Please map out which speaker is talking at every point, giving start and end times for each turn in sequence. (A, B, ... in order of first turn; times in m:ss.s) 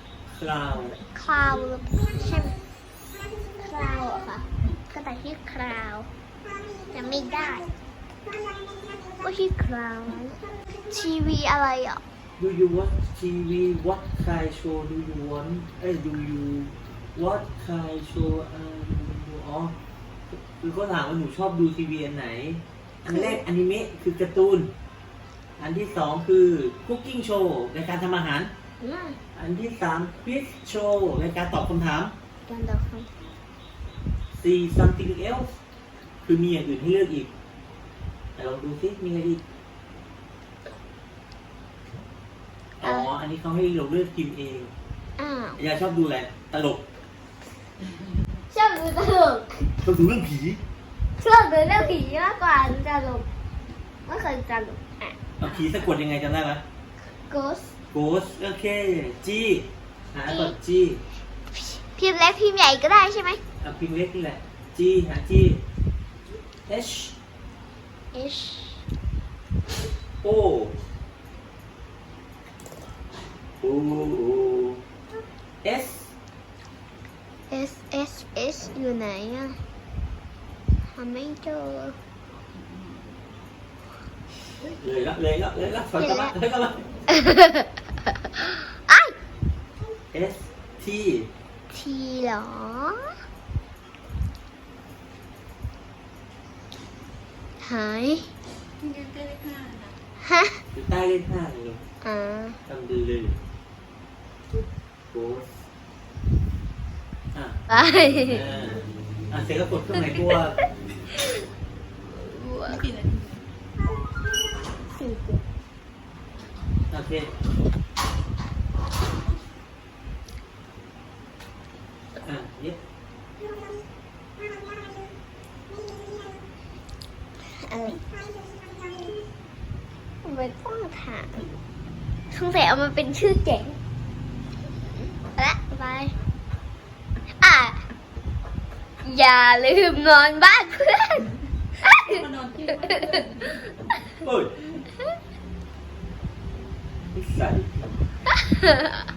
0:00.3-0:01.0 A
0:01.0-0:02.6 B
0:03.6-0:06.1 B
0:06.9-0:07.7 B
0:09.2-0:12.0 B
0:12.4-0:19.8 A
0:20.3-0:24.7 A
0:25.6-0:28.5 A
0:28.8-0:29.2 B
0:29.4-0:32.2 A
0:32.5-0:33.1 B
0:34.4-0:35.5 A
0:36.2-0:37.3 A
0:38.4-0:39.4 A
0:42.8-0:44.7 A
0:42.8-0:43.1 B
0:45.2-0:45.6 B
0:45.6-0:46.8 A
0:48.5-0:49.7 B
0:49.8-0:50.6 A
0:51.2-0:53.3 B
0:54.1-0:55.2 B
0:55.4-0:56.6 A
0:57.1-0:57.7 B
0:57.9-1:01.0 A
1:00.3-1:00.6 B
1:01.5-1:03.4 B
1:03.6-1:05.6 A
1:06.7-1:07.1 A
1:08.1-1:08.9 B
1:10.2-1:10.8 A
1:13.6-1:14.8 A
1:15.6-1:16.1 A
1:17.5-1:19.6 B
1:20.9-1:22.0 B
1:24.6-1:26.9 A
1:26.0-1:26.3 B
1:27.1-1:27.7 B
1:28.4-1:29.2 B
1:30.1-1:31.3 A
1:31.7-1:33.1 B
1:37.6-1:38.3 B
1:38.8-1:39.9 C
1:40.2-1:40.6 B
1:40.7-1:41.8 A
1:42.0-1:42.6 B
1:42.7-1:43.4 A
1:45.1-1:45.6 A
1:47.3-1:47.6 A
1:47.7-1:48.4 B
1:48.3-1:50.6 A
1:52.1-1:52.9 B
1:52.9-1:53.3 C
1:55.0-1:55.4 B
1:56.9-1:57.3 A
2:02.2-2:02.8 A
2:07.4-2:08.0 B
2:10.2-2:11.5 B
2:12.3-2:13.8 B
2:14.9-2:16.2 B
2:17.4-2:17.8 B
2:19.0-2:22.2 B
2:22.3-2:23.4 C
2:22.8-2:23.2 B
2:24.2-2:24.6 A
2:27.1-2:28.0 A
2:28.5-2:28.8 B